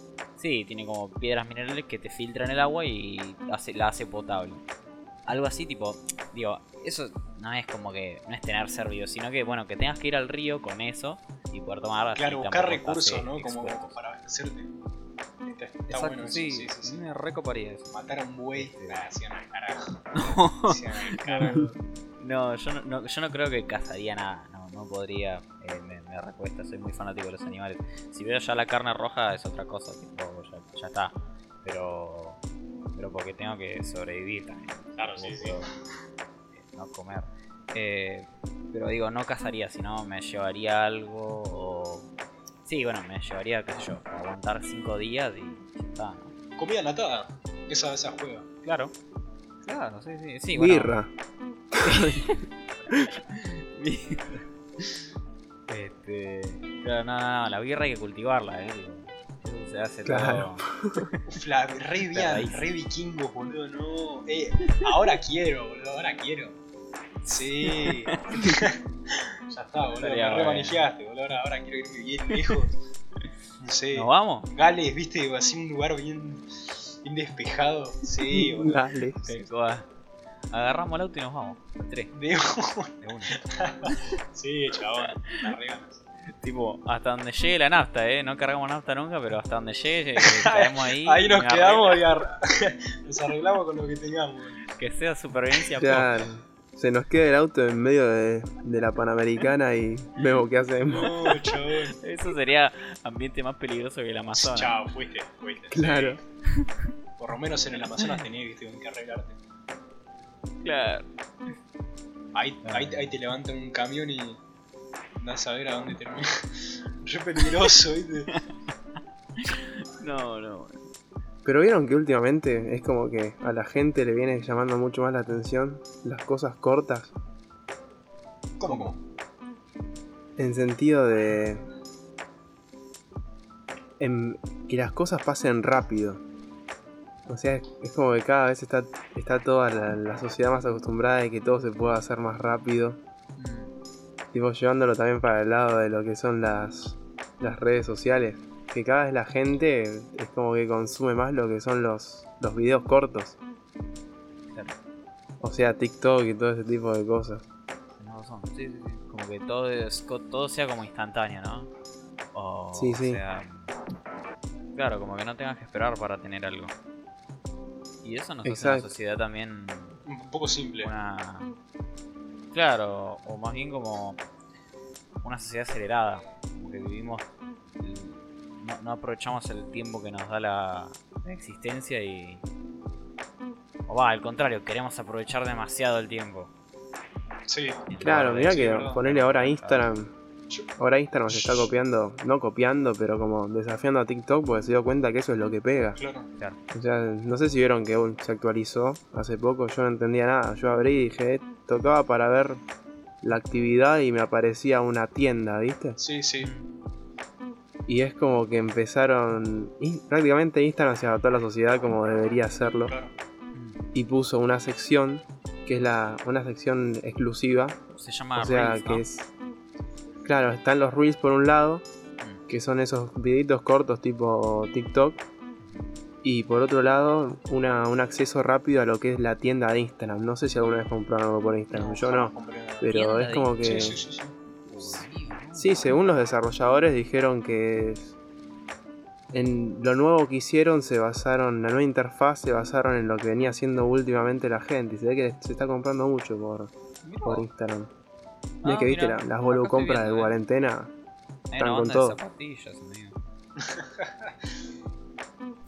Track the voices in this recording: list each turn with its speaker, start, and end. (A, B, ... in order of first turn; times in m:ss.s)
0:00.4-0:04.6 A
0:05.2-0:13.9 A
0:12.2-0:14.7 B
0:15.4-0:17.0 B
0:15.9-0:17.9 A
0:17.9-0:21.7 B
0:18.5-0:19.0 A
0:20.1-0:21.6 A
0:22.2-0:32.4 A
0:32.9-0:35.7 A
0:35.0-0:35.7 B
0:36.5-0:42.1 A
0:42.6-0:46.3 A
0:46.6-0:48.5 B
0:48.6-0:48.9 A
0:49.6-0:51.0 A
0:50.5-0:51.1 C
0:51.7-0:52.2 C
0:51.8-0:54.9 A
0:55.7-1:01.2 A
1:00.0-1:01.0 C
1:01.3-1:06.6 B
1:02.1-1:02.7 A
1:07.2-1:08.4 A
1:07.3-1:12.8 B
1:10.0-1:10.8 A
1:13.6-1:18.8 B
1:13.9-1:14.5 A
1:18.3-1:19.3 C
1:19.2-1:19.9 A
1:20.5-1:22.1 A
1:22.1-1:26.0 B
1:23.0-1:24.0 A
1:26.4-1:32.0 A
1:30.2-1:34.7 B
1:34.8-1:36.1 A
1:35.8-1:41.2 C
1:40.9-1:42.0 B
1:42.0-1:44.7 A
1:44.3-1:46.2 B
1:45.7-1:46.2 C
1:47.2-1:49.4 B
1:48.0-1:48.2 A
1:50.6-1:51.1 A
1:52.3-1:54.4 B
1:52.6-1:53.2 A
1:55.2-1:58.3 B
1:59.4-2:00.8 A
2:01.4-2:07.1 C
2:08.6-2:09.0 B
2:08.6-2:08.9 C
2:10.4-2:11.6 C
2:14.0-2:16.2 C
2:17.2-2:23.0 C
2:23.4-2:23.7 A
2:24.3-2:33.4 C
2:35.4-2:37.4 C
2:38.0-2:41.7 A
2:42.3-2:43.7 A
2:42.7-2:43.2 C
2:44.7-2:46.7 A
2:48.0-2:50.0 A
2:48.4-2:48.9 C
2:50.0-2:50.9 B
2:50.8-2:51.5 A
2:52.5-2:54.2 A
2:55.2-3:02.4 A
3:03.9-3:06.5 A
3:07.5-3:09.0 B
3:07.9-3:09.9 A
3:08.0-3:10.1 C
3:10.8-3:16.0 C
3:11.3-3:11.7 B
3:16.0-3:16.3 B
3:16.7-3:22.6 C
3:23.2-3:26.0 C
3:26.0-3:26.5 B
3:26.4-3:26.7 A
3:27.9-3:32.9 C
3:32.9-3:33.1 B
3:33.5-3:33.8 A
3:33.9-3:37.8 C
3:37.9-3:39.0 A
3:38.4-3:39.3 C
3:40.2-3:41.8 C
3:42.5-3:45.2 C
3:45.6-3:45.9 A
3:46.2-3:54.0 C
3:51.7-3:53.0 B
3:52.9-3:55.9 A
3:53.6-3:54.4 B
3:55.5-3:58.1 C
3:59.3-4:06.7 C
4:07.0-4:07.5 A
4:07.2-4:07.9 C
4:08.6-4:10.4 A
4:08.6-4:10.9 C
4:11.5-4:13.2 A
4:11.6-4:12.2 C
4:13.6-4:14.3 B